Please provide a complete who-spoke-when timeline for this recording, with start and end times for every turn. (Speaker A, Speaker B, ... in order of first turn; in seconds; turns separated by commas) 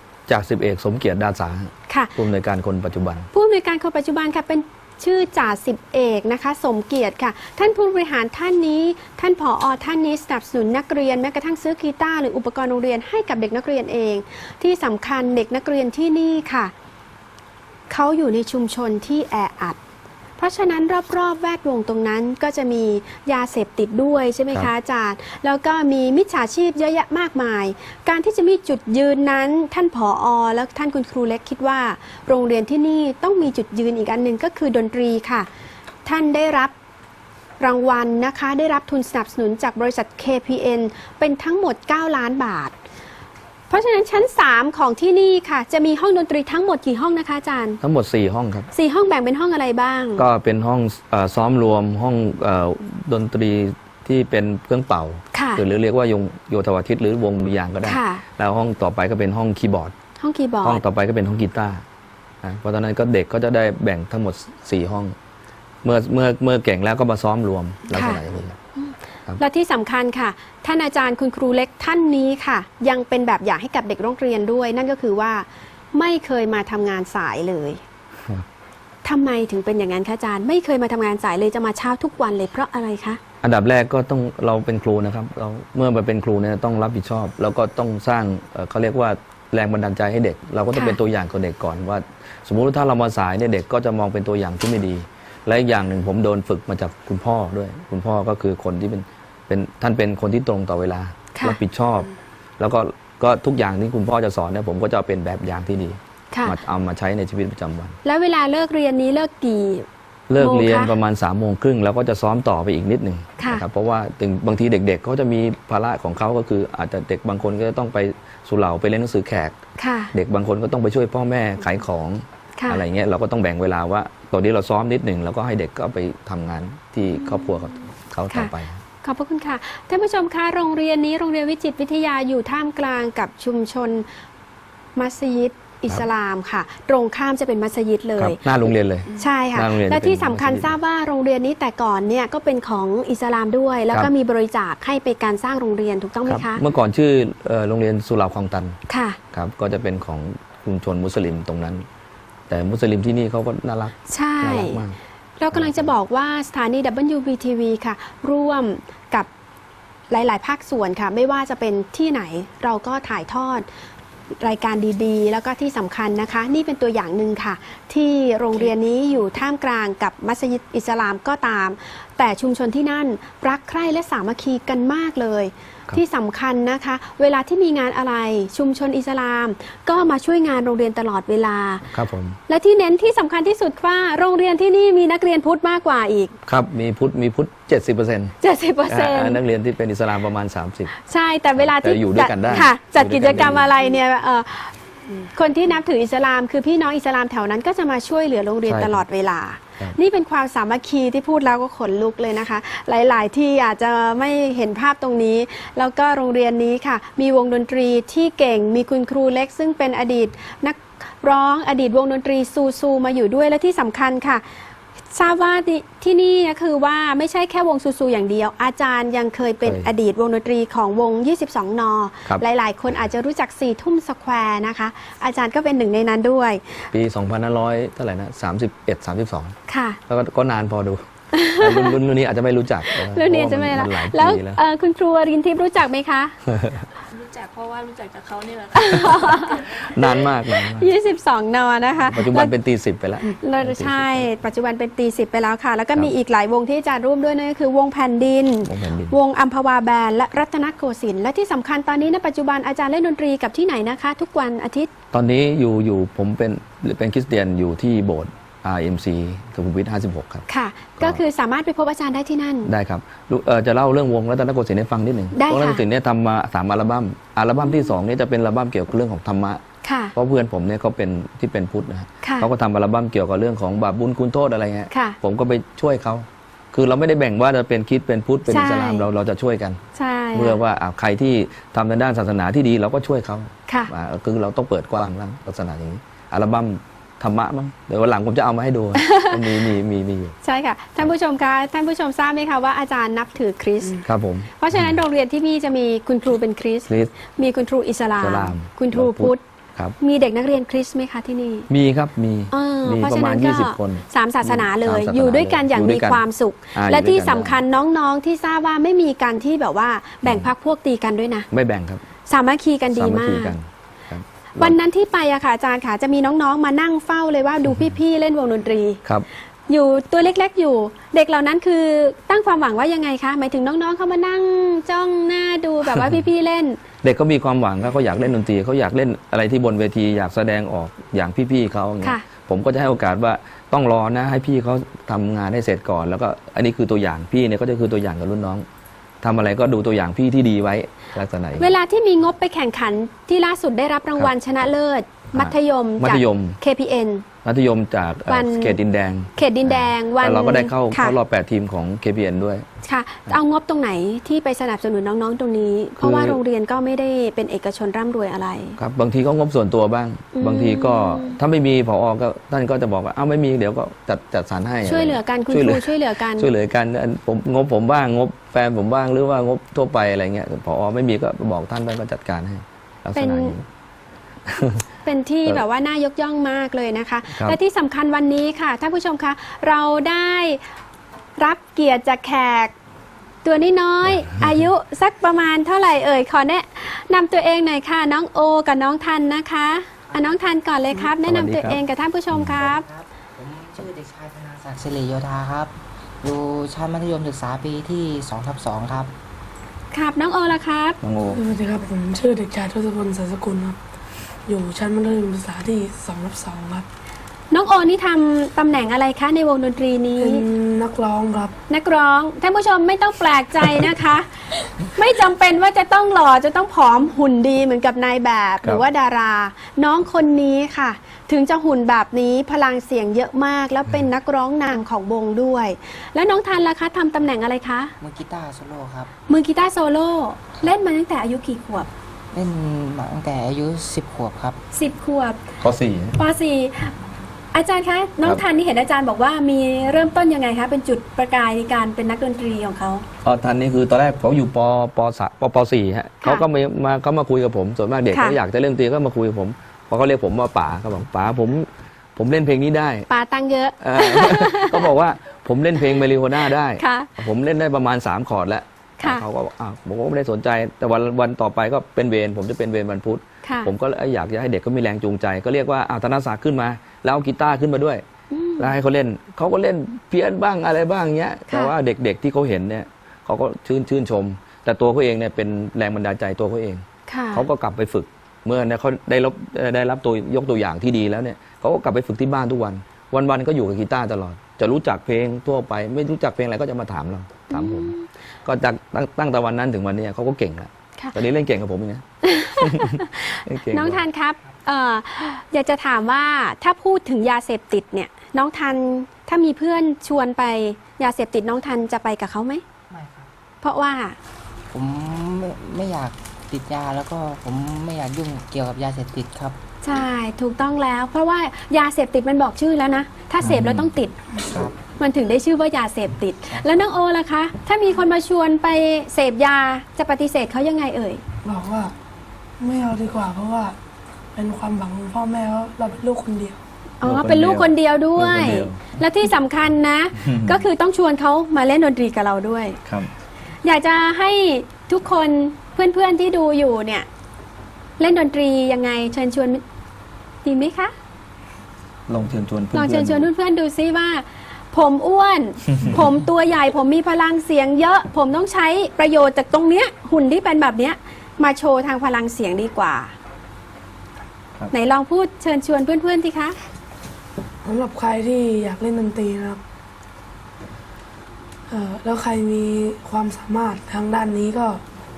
Speaker A: 0.3-3.3, Speaker B: 1.9-2.1, Speaker B: 3.3-16.7, Speaker B: 17.9-19.8, Speaker B: 20.4-35.5, Speaker B: 36.0-36.7, Speaker B: 37.6-42.8, Speaker B: 43.7-47.8, Speaker A: 47.8-48.7, Speaker B: 48.7-50.3, Speaker A: 50.2-59.9, Speaker B: 55.3-55.6, Speaker B: 57.9-58.2, Speaker B: 60.2-60.8, Speaker A: 60.6-61.8, Speaker A: 62.4-65.2, Speaker A: 65.8-68.6, Speaker B: 67.9-68.2, Speaker B: 68.8-77.8, Speaker B: 79.0-83.2, Speaker A: 83.4-108.0, Speaker B: 106.3-106.6, Speaker B: 108.0-109.9, Speaker A: 110.3-119.6, Speaker B: 110.4-110.9, Speaker B: 113.4-113.7, Speaker B: 119.8-120.1, Speaker A: 120.1-128.8, Speaker B: 122.6-122.8, Speaker B: 127.2-127.5, Speaker B: 128.3-134.1, Speaker B: 135.0-146.6, Speaker A: 138.2-140.8, Speaker A: 146.3-148.8, Speaker B: 148.9-149.2, Speaker A: 149.3-151.9, Speaker A: 152.5-155.0, Speaker B: 154.1-154.8, Speaker B: 155.4-159.3, Speaker A: 155.5-155.8, Speaker B: 160.1-163.7, Speaker B: 164.4-181.9, Speaker A: 181.9-182.4, Speaker B: 182.5-186.3, Speaker A: 186.5-188.4, Speaker B: 188.4-189.4, Speaker A: 188.9-190.9, Speaker B: 191.0-214.5, Speaker A: 191.6-193.7, Speaker A: 198.7-199.0, Speaker B: 215.1-226.9, Speaker A: 219.6-219.9, Speaker A: 226.9-229.6, Speaker B: 229.7-230.0, Speaker A: 230.1-234.6, Speaker B: 231.3-231.9, Speaker B: 232.9-236.4, Speaker A: 236.5-236.8, Speaker C: 237.1-239.9, Speaker B: 238.8-239.9, Speaker A: 239.8-240.9, Speaker B: 240.7-242.5, Speaker A: 242.1-244.3, Speaker B: 243.2-254.9, Speaker A: 248.6-249.2, Speaker A: 255.1-260.5, Speaker B: 260.5-262.7, Speaker A: 262.6-269.6, Speaker B: 265.3-265.8, Speaker B: 267.6-267.9, Speaker B: 269.8-270.1, Speaker A: 270.1-279.8, Speaker B: 272.2-272.5, Speaker B: 274.9-275.2, Speaker B: 278.5-279.1, Speaker B: 279.9-280.6, Speaker A: 280.3-290.4, Speaker B: 288.9-289.4, Speaker B: 290.4-294.1, Speaker A: 294.0-294.9, Speaker B: 294.6-299.4, Speaker A: 296.9-297.1, Speaker A: 298.2-300.0, Speaker B: 300.0-301.7, Speaker A: 301.7-306.2, Speaker B: 302.5-311.5, Speaker A: 306.7-307.6, Speaker A: 310.2-310.5, Speaker A: 311.5-312.0, Speaker B: 312.3-313.5, Speaker A: 312.9-314.8, Speaker B: 314.6-319.0, Speaker B: 319.7-326.8, Speaker A: 327.0-338.7, Speaker A: 339.2-341.7, Speaker B: 341.6-347.3, Speaker A: 345.3-346.6, Speaker A: 347.4-352.7, Speaker B: 348.3-348.8, Speaker B: 349.4-351.2, Speaker B: 352.8-358.8, Speaker A: 356.0-356.4, Speaker A: 358.8-373.6, Speaker B: 360.3-361.4, Speaker B: 364.8-366.5, Speaker B: 373.1-373.6, Speaker A: 374.5-374.9, Speaker B: 375.1-380.6, Speaker B: 381.4-382.8, Speaker B: 383.4-392.9, Speaker A: 384.1-384.6, Speaker A: 391.2-391.8, Speaker D: 392.4-399.1, Speaker B: 399.9-401.0, Speaker A: 401.0-401.5, Speaker E: 401.3-403.8, Speaker E: 404.5-406.9, Speaker B: 407.5-410.5, Speaker E: 410.2-411.5, Speaker B: 411.7-427.9, Speaker D: 428.0-429.1, Speaker B: 429.3-431.9, Speaker D: 432.3-434.6, Speaker B: 434.7-435.6, Speaker A: 435.6-436.2, Speaker B: 436.2-437.0, Speaker B: 437.5-443.1, Speaker A: 443.2-453.1, Speaker B: 448.1-448.4, Speaker B: 453.1-454.9, Speaker A: 453.8-468.0, Speaker B: 456.8-457.1, Speaker B: 459.0-459.2, Speaker B: 463.4-463.7, Speaker B: 468.3-468.7, Speaker A: 468.6-487.9, Speaker B: 477.1-477.5, Speaker B: 487.5-488.1, Speaker A: 488.4-494.1, Speaker B: 492.2-502.6, Speaker D: 502.9-503.3, Speaker B: 503.6-504.2, Speaker D: 504.7-509.6, Speaker B: 509.8-514.2, Speaker A: 513.4-513.9, Speaker D: 514.5-514.8, Speaker B: 514.8-521.2, Speaker E: 521.4-521.9, Speaker E: 522.6-523.8, Speaker E: 524.4-526.6, Speaker B: 527.0-532.8, Speaker A: 527.0-528.9, Speaker A: 530.2-530.7, Speaker A: 532.9-533.1, Speaker B: 533.6-537.1, Speaker B: 538.0-539.6, Speaker B: 540.4-540.9, Speaker A: 542.1-543.3, Speaker B: 542.7-553.1, Speaker B: 554.7-556.6, Speaker E: 557.6-559.6, Speaker E: 561.7-564.8